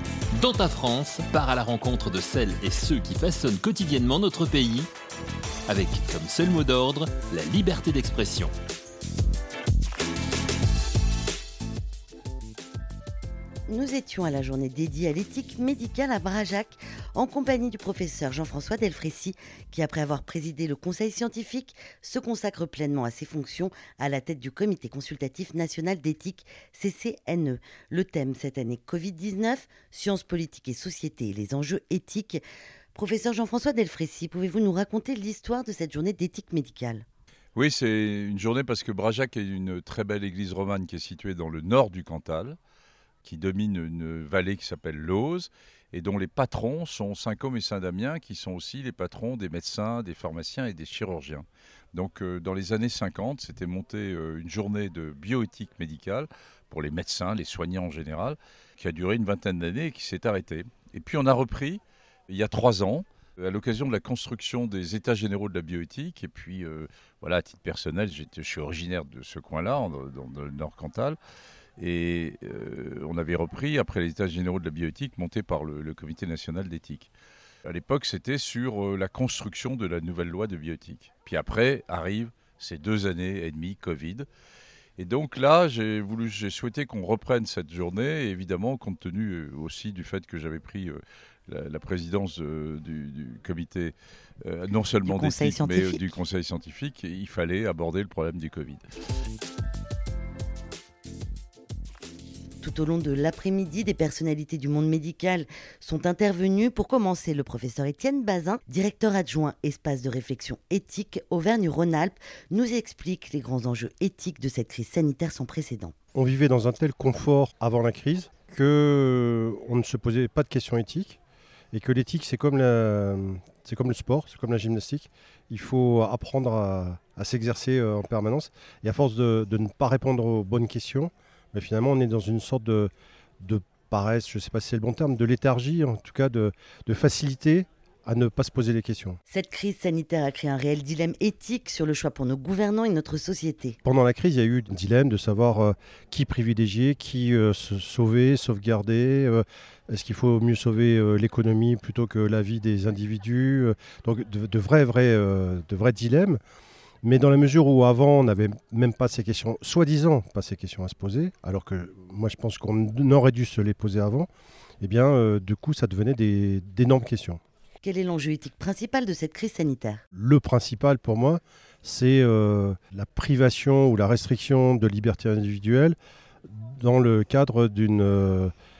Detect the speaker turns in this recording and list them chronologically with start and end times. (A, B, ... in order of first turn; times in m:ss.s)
0:00.3-0:04.9 A
0:05.7-0:08.5 A
0:13.7-0:32.4 B
0:33.0-0:37.0 B
0:37.6-0:42.6 C
0:43.2-1:11.2 C
1:11.8-1:17.1 C
1:17.7-1:24.3 C
1:25.0-1:38.8 C
1:35.0-1:36.1 B
1:42.6-1:55.9 B
1:56.2-2:01.2 D
2:01.7-2:19.2 D
2:19.3-2:23.8 B
2:23.8-2:36.4 D
2:37.0-2:44.3 D
2:44.8-2:47.4 D
2:47.8-2:50.0 B
2:50.1-2:56.0 D
2:56.5-2:58.5 D